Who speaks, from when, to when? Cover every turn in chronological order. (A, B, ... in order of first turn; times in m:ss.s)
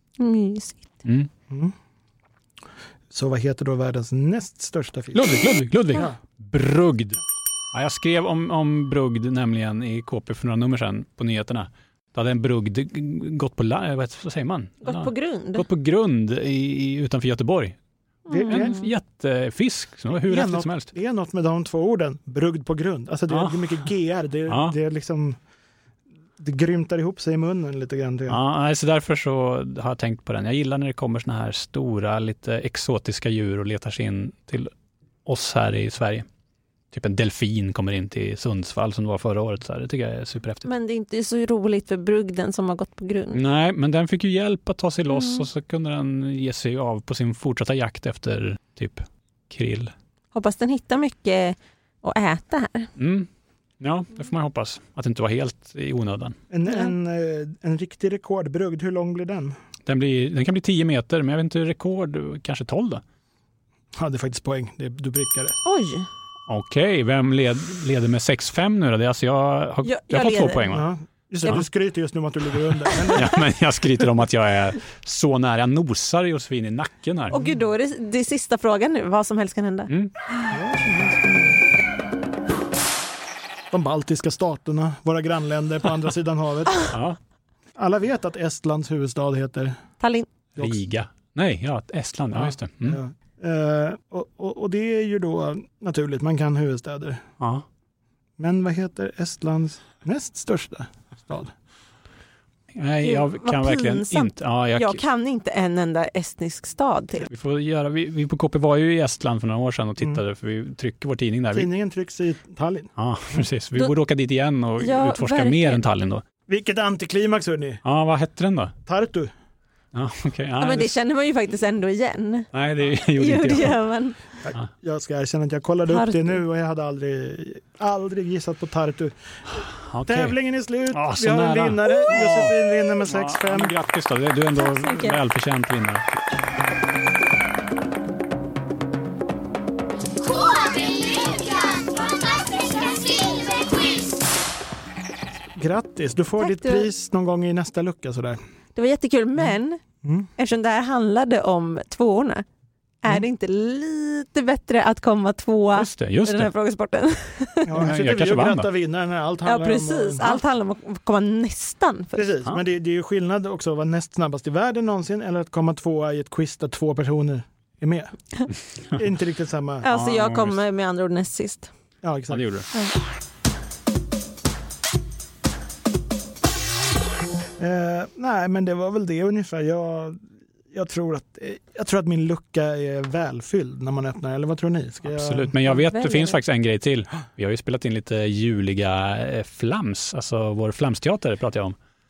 0:00.2-0:00.9 A
0:01.0-0:01.3 B
0:03.1-0:05.3 C
0:05.1-0:07.2 B
0:07.7-0:17.8 B
0:14.8-0:15.6 A
0:18.3-0:18.9 A
0:18.3-0:18.8 C
0:18.5-0:20.9 B
0:20.3-0:25.4 C
0:23.3-0:23.8 B
0:24.5-0:24.7 B
0:26.4-0:28.4 C
0:28.3-0:34.7 B
0:35.2-0:36.2 B
0:36.9-0:40.7 B
0:40.6-0:43.4 A
0:43.3-0:49.9 B
0:45.1-0:45.4 A
0:50.3-0:52.9 A
0:53.0-0:53.3 B
0:53.8-0:56.4 B
0:56.5-0:59.6 C
0:56.6-0:56.9 A
0:59.8-1:03.0 B
1:04.0-1:05.6 C
1:05.6-1:06.1 A
1:06.5-1:10.9 B
1:09.8-1:10.7 A
1:10.7-1:13.4 C
1:13.1-1:17.4 B
1:17.3-1:19.9 A
1:20.5-1:21.7 C
1:23.7-1:26.9 C
1:26.9-1:27.2 B
1:27.8-1:29.8 C
1:30.0-1:30.3 A
1:30.6-1:33.0 B
1:32.3-1:37.2 C
1:38.4-1:41.5 C
1:42.7-1:45.0 B
1:43.0-1:47.3 A
1:47.3-1:51.7 B
1:51.5-1:52.9 C
1:53.0-1:56.2 B
1:54.8-1:55.8 A
1:56.5-1:57.8 C
1:57.8-1:58.7 B
1:58.8-1:59.3 C
1:59.9-2:01.0 B
2:00.6-2:02.5 A
2:02.5-2:03.8 B
2:03.1-2:04.2 A
2:04.4-2:09.2 C
2:05.9-2:06.4 A
2:09.6-2:10.4 B
2:10.0-2:13.7 C
2:10.9-2:16.1 B
2:14.6-2:15.2 A
2:25.5-2:28.4 C
2:26.4-2:26.9 A
2:28.7-2:29.8 A
2:30.0-2:30.3 C
2:30.4-2:32.4 A
2:33.0-2:37.8 A
2:35.7-2:36.5 B
2:37.6-2:40.4 C
2:37.8-2:38.7 B
2:39.4-2:42.3 A
2:42.2-2:48.1 C
2:49.0-2:49.9 C
2:49.8-2:51.7 A
2:49.9-2:50.6 B
2:52.0-2:52.4 C
2:52.3-2:52.7 B
2:57.6-3:05.5 C
3:05.1-3:11.8 B
3:05.6-3:06.4 A